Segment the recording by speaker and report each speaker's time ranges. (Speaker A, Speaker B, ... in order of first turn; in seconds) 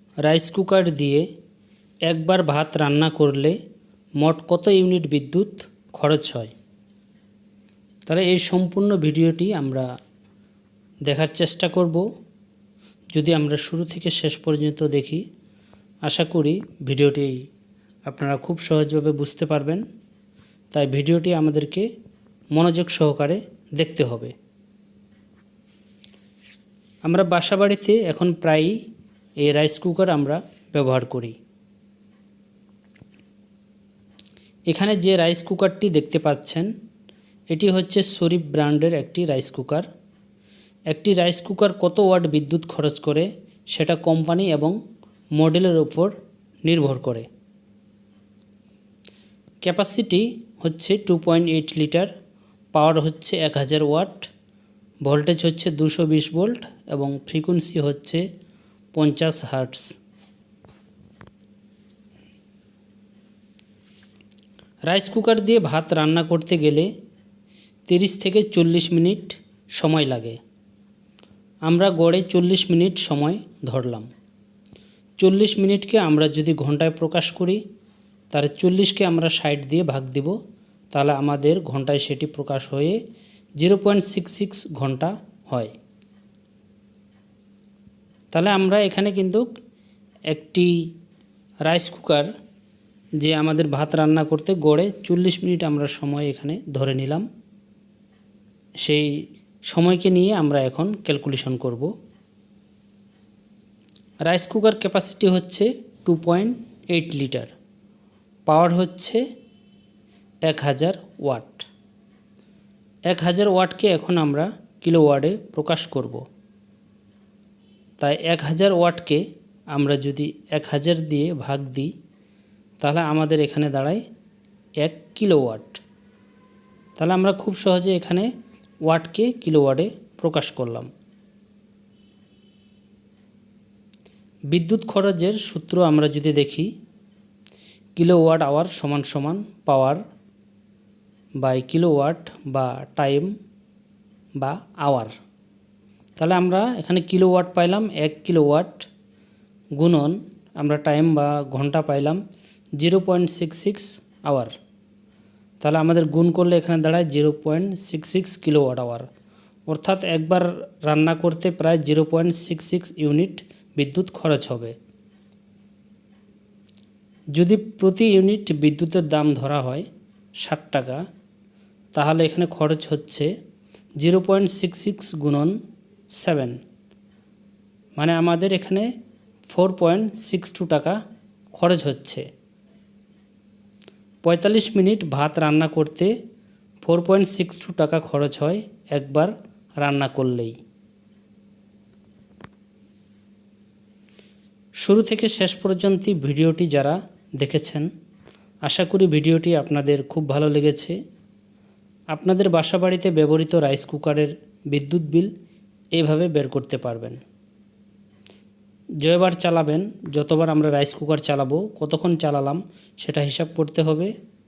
Speaker A: 0.2-1.3, 2.1-3.6, 4.2-6.5, 8.1-9.8, 11.1-12.1, 13.1-15.2, 16.0-17.4, 18.1-19.8, 20.7-21.9, 22.5-24.3, 27.0-28.8, 29.4-31.3, 34.7-36.7, 37.5-39.9, 40.9-44.8, 45.4-46.1, 46.7-47.3, 49.6-52.1, 52.7-54.3, 55.0-58.2, 58.9-59.9, 64.9-66.9, 67.9-70.4, 71.7-74.1, 75.2-77.6, 78.3-80.3, 80.9-83.0, 83.6-85.7, 88.3-89.4, 90.3-90.7, 91.7-92.3, 93.2-97.2, 98.8-99.1, 99.7-101.9, 104.2-107.5, 108.5-109.2, 110.5-111.7, 113.1-116.2, 118.0-121.9, 122.8-124.0, 124.8-125.8, 127.0-128.3, 128.8-130.9, 134.5-136.7, 138.0-140.0, 141.4-143.3, 144.4-145.1, 146.2-148.9, 149.8-152.2, 152.8-154.5, 155.6-159.1, 159.7-164.7, 167.3-169.8, 170.4-171.0, 171.9-173.3, 174.0-175.5, 176.2-176.6, 178.0-178.9, 179.5-181.0, 181.6-182.2, 184.2-186.1, 186.8-190.6, 194.8-197.9, 198.6-201.0, 202.1-205.3, 205.9-207.2, 209.0-214.1